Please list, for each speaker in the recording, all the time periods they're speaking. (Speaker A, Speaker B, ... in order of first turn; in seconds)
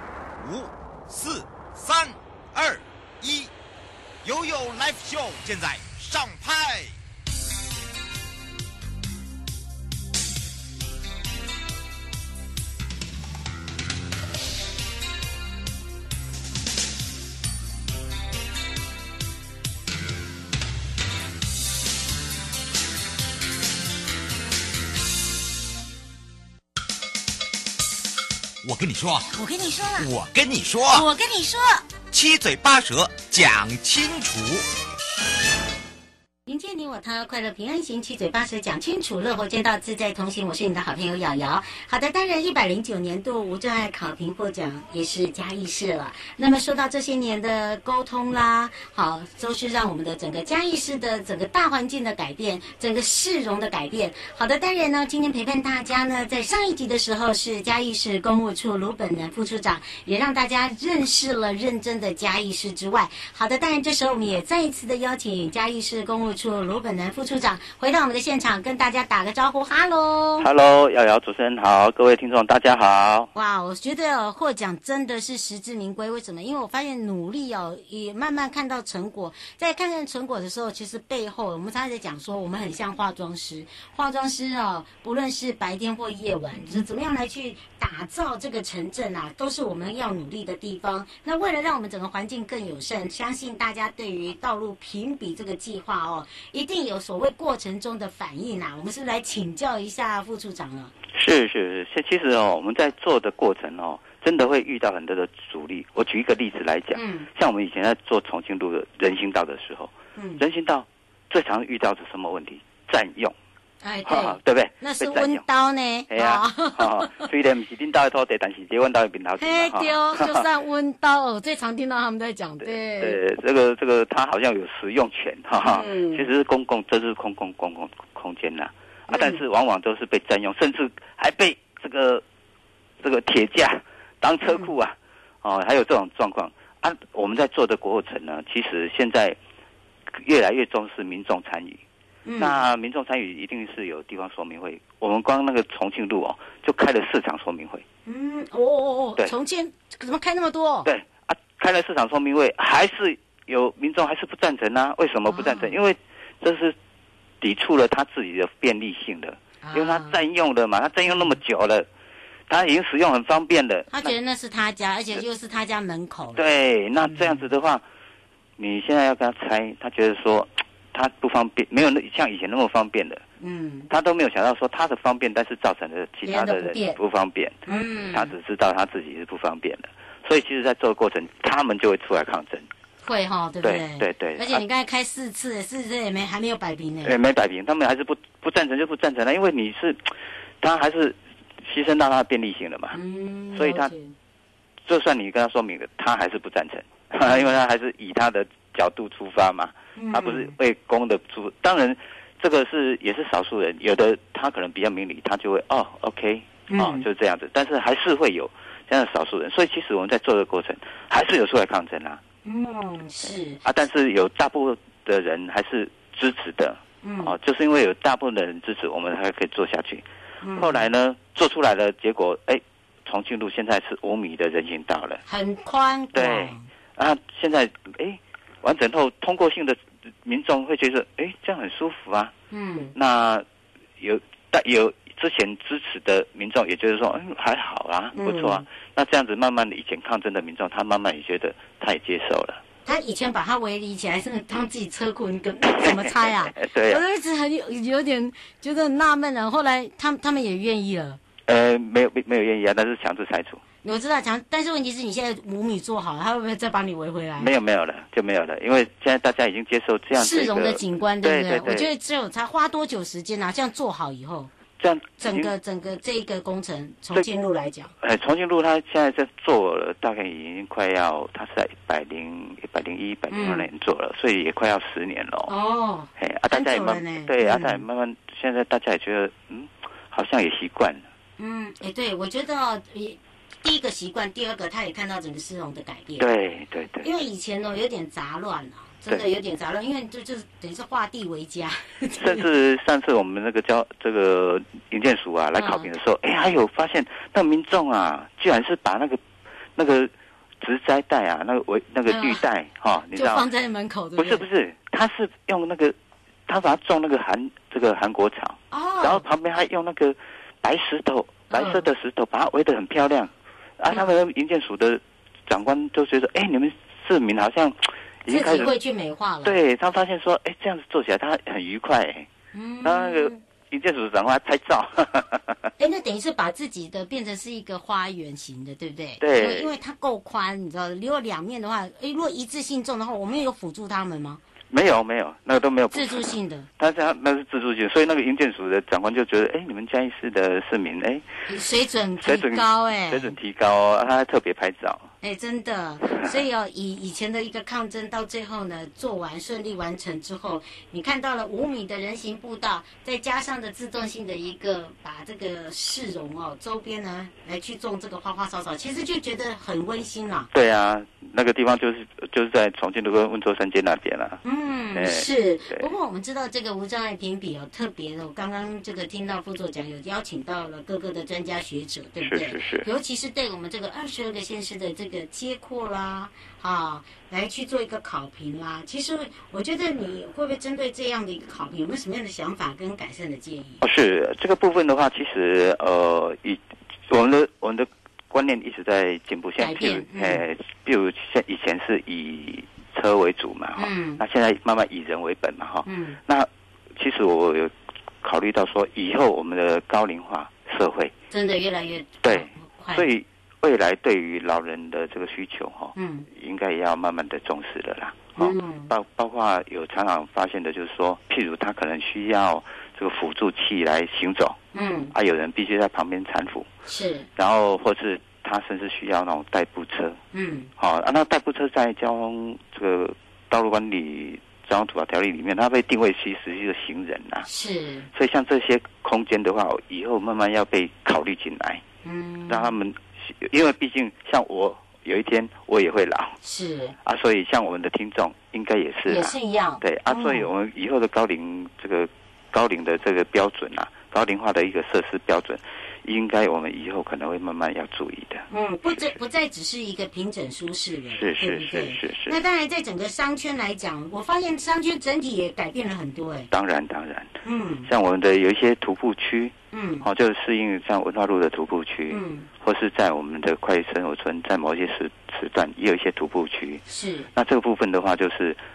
Speaker A: 0.4-3.5, 4.2-7.0, 28.6-29.3, 30.0-31.1, 32.1-34.6
Speaker B: 29.3-30.1, 30.9-31.9, 36.5-70.5, 73.3-100.9, 107.0-107.3, 110.2-110.4, 113.8-117.3, 119.4-123.2, 125.6-126.3, 129.1-129.4, 142.2-142.6, 148.1-150.9, 155.3-155.7, 159.6-160.2, 163.9-166.4, 167.0-167.4, 173.4-173.9, 176.3-177.0, 177.7-178.3, 183.0-187.2, 192.9-194.1, 197.3-197.5, 200.0-200.5, 206.7-207.1, 212.4-213.6, 217.0-217.3, 220.4-220.8, 225.3-226.7, 232.5-232.9, 238.1-238.7, 242.9-251.2, 253.8-257.5, 260.1-264.5, 265.2-267.9, 273.3-273.7, 275.5-277.8, 281.4-286.3, 287.0-292.5, 295.6-295.9, 302.1-302.4, 303.1-304.4, 308.7-309.2, 311.5-311.9, 318.3-319.6, 322.5-323.4, 325.8-334.4, 335.9-336.7, 341.5-343.3, 345.2-360.5, 364.4-383.8, 389.6-390.4, 393.8-394.2, 395.9-396.2, 401.3-403.0, 406.0-406.3, 408.4-408.9, 414.7-415.1, 416.9-417.3, 420.3-420.7, 427.4-428.1, 432.0-432.8, 436.4-436.9, 439.1-440.5, 448.5-456.5, 457.4-457.9, 459.7-460.1, 462.1-462.5, 466.9-467.3
Speaker C: 70.4-73.3, 101.1-113.3, 114.1-115.4, 116.1-120.5, 122.6-132.2, 133.0-139.4, 140.1-141.8, 142.4-147.8, 150.8-156.8, 157.4-161.9, 162.5-164.1, 166.4-167.8, 168.6-173.2, 173.9-177.6, 178.1-182.7, 183.6-184.6, 187.0-193.0, 193.6-193.9, 194.8-212.2, 213.6-220.0, 220.6-225.2, 226.1-232.3, 232.9-233.4, 234.0-242.6, 245.8-247.0, 251.5-253.6, 257.4-261.9, 264.8-265.5, 268.0-275.5, 276.2-281.0, 286.2-287.1, 292.2-299.2, 299.8-300.1, 300.6-303.5, 304.2-305.9, 306.5-318.7, 319.4-322.3, 322.8-325.7, 329.2-329.8, 334.7-341.3, 342.2-345.1, 360.5-364.4, 364.9-365.9, 372.2-372.9, 383.8-401.1, 402.2-414.6, 415.1-416.7, 417.4-420.2, 420.8-427.5, 428.1-431.8, 432.5-436.4, 437.0-448.5, 451.1-452.4, 456.5-457.3, 457.9-466.8, 467.4-468.6